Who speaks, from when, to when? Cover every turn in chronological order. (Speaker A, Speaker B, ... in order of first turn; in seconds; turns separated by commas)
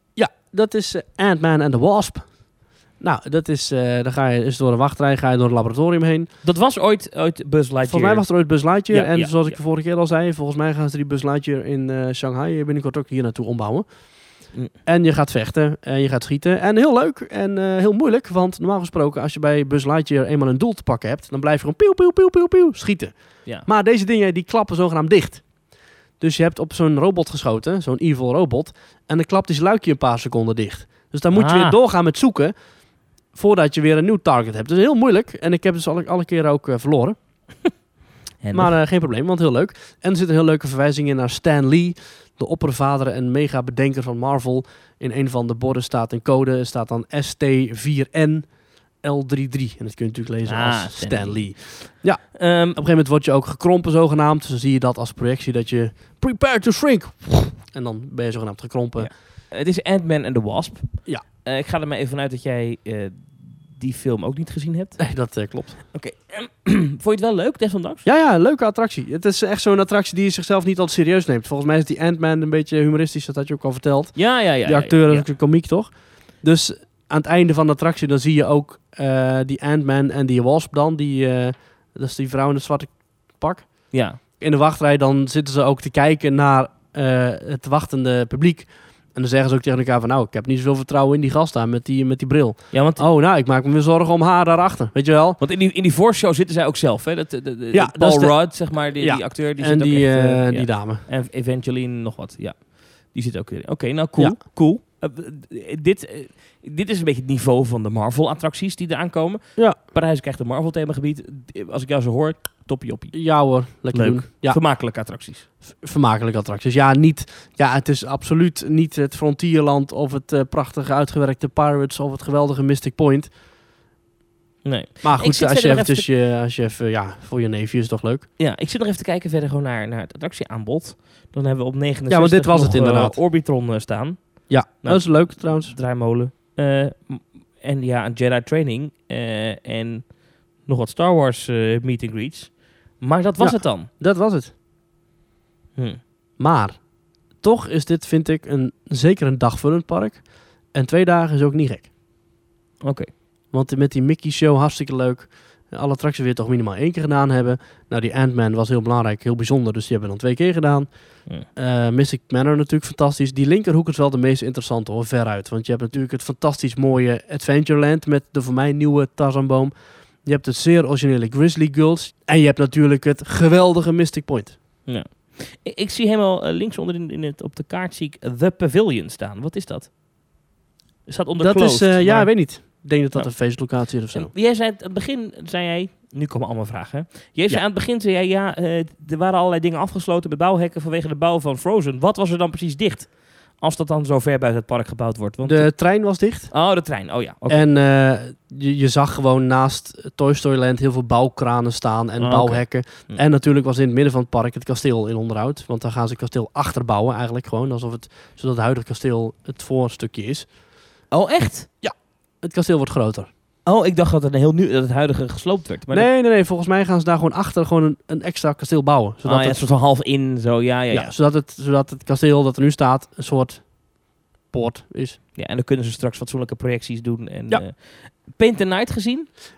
Speaker A: 0.2-2.4, Speaker A: 3.0-6.3, Speaker B: 6.4-9.6, Speaker A: 7.9-13.9, Speaker A: 14.8-25.4, Speaker A: 26.2-32.5, Speaker B: 31.3-31.8, Speaker A: 33.3-37.2, Speaker B: 38.4-38.8, Speaker A: 38.5-48.5, Speaker A: 49.0-59.1, Speaker B: 50.5-52.8, Speaker B: 59.0-65.1, Speaker A: 65.0-65.8, Speaker B: 65.9-68.0, Speaker A: 68.0-95.4, Speaker B: 74.2-75.3, Speaker B: 83.9-84.2, Speaker B: 92.7-93.0, Speaker B: 95.4-115.5, Speaker A: 97.7-101.0, Speaker A: 113.1-114.6, Speaker A: 115.8-123.3, Speaker B: 124.6-126.1, Speaker A: 125.0-128.3, Speaker B: 128.4-143.9, Speaker A: 132.1-133.2, Speaker A: 134.5-135.8, Speaker A: 143.4-144.5, Speaker B: 145.8-146.0, Speaker A: 146.4-146.8, Speaker A: 147.4-151.9, Speaker B: 152.8-153.1, Speaker A: 153.5-174.6, Speaker B: 174.9-179.9, Speaker B: 181.1-182.5, Speaker A: 181.4-184.3, Speaker B: 183.1-195.7, Speaker A: 195.4-196.5, Speaker B: 196.5-197.7, Speaker A: 197.5-210.5, Speaker B: 202.2-203.2, Speaker B: 211.1-211.7, Speaker A: 211.8-213.3, Speaker B: 213.7-216.1, Speaker A: 215.9-219.7, Speaker B: 219.2-221.1, Speaker A: 220.9-225.2, Speaker B: 225.3-229.3